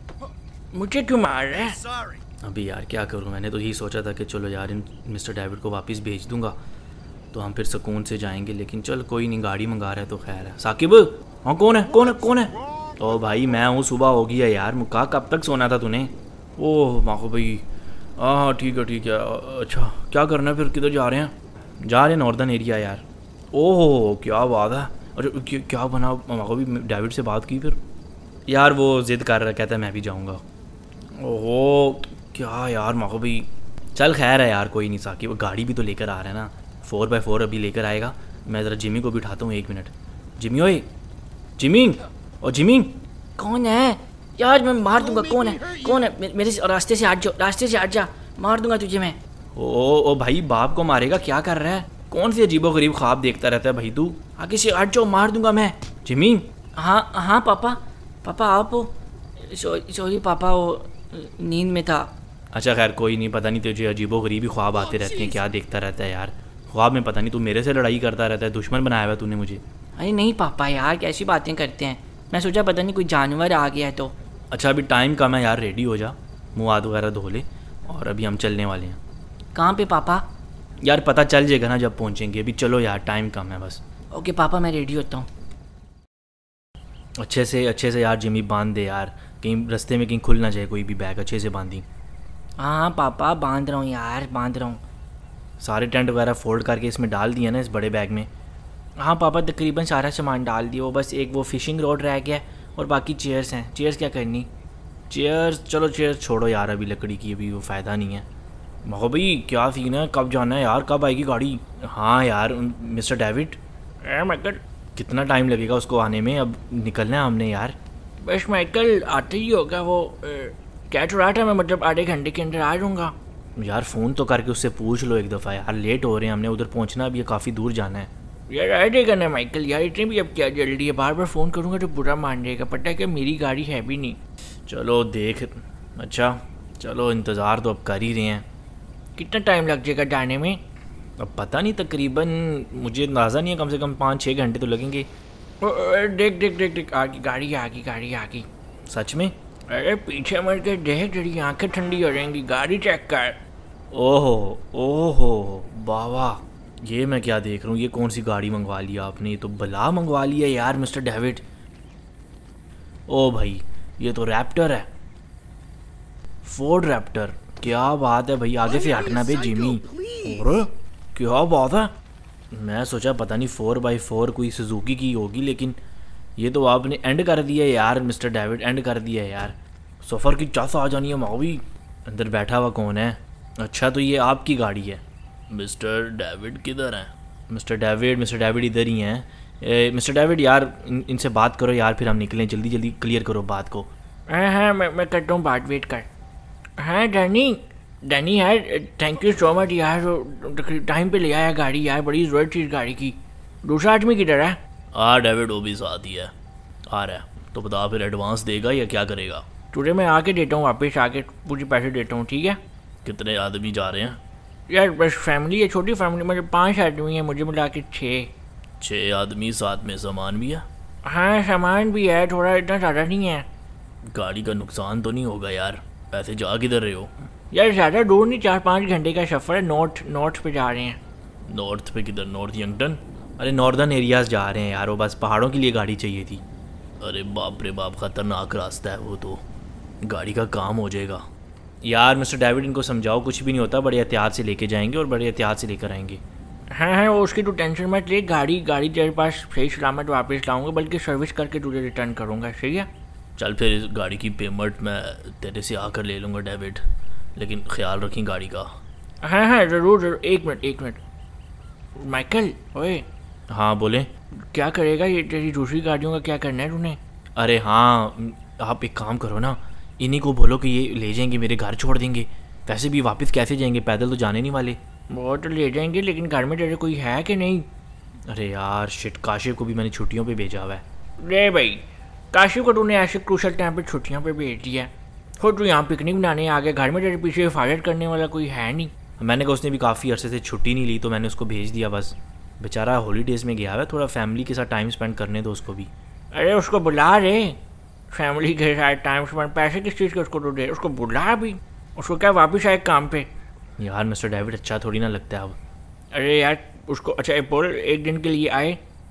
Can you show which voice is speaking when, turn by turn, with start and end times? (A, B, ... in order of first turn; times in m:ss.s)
0:00.7-0:01.8 A
0:02.4-0:06.6 B
0:07.3-0:17.6 B
0:18.2-0:27.8 B
0:28.5-0:30.4 B
0:31.2-0:40.9 B
0:41.6-0:43.0 B
0:43.4-0:49.2 C
0:49.6-0:56.5 B
0:54.4-0:55.7 C
0:56.8-1:02.1 C
1:02.5-1:09.6 B
1:10.0-1:14.2 C
1:14.5-1:19.0 B
1:19.6-1:20.3 C
1:20.8-1:23.8 B
1:24.1-1:25.3 C
1:27.2-1:31.9 B
1:32.6-1:34.8 C
1:35.6-1:38.3 B
1:39.0-1:44.5 C
1:45.1-1:48.3 B
1:48.8-1:53.6 B
1:54.0-1:54.6 A
1:55.0-1:57.8 B
1:58.2-2:03.1 A
2:03.6-2:08.1 B
2:08.5-2:14.2 A
2:14.7-2:18.5 B
2:19.2-2:20.6 A
2:21.2-2:25.1 B
2:25.6-2:28.5 A
2:28.9-2:29.3 B
2:29.7-2:33.4 A
2:33.9-2:41.4 B
2:43.1-2:44.9 B
2:46.4-2:51.9 B
2:52.5-2:55.8 B
2:56.4-3:13.9 B
3:14.3-3:16.1 A
3:16.8-3:24.6 A
3:24.9-3:26.3 B
3:26.9-3:29.5 B
3:29.7-3:32.6 A
3:33.0-3:34.2 B
3:34.7-3:38.3 A
3:38.8-3:40.7 B
3:41.0-3:43.5 A
3:44.1-3:47.1 B
3:47.5-3:51.0 A
3:51.5-3:56.4 B
3:57.0-3:59.4 B
4:00.0-4:01.3 B
4:01.8-4:06.2 B
4:06.7-4:12.9 A
4:13.4-4:18.8 B
4:19.2-4:21.0 A
4:22.0-4:23.1 A
4:23.5-4:24.1 B
4:24.4-4:27.0 A
4:27.4-4:34.8 B
4:35.1-4:37.7 A
4:38.3-4:40.8 B
4:41.2-4:48.9 A
4:49.2-4:55.9 B
4:56.3-4:57.6 A
4:58.1-5:03.3 A
5:03.8-5:05.6 B
5:06.1-5:08.8 A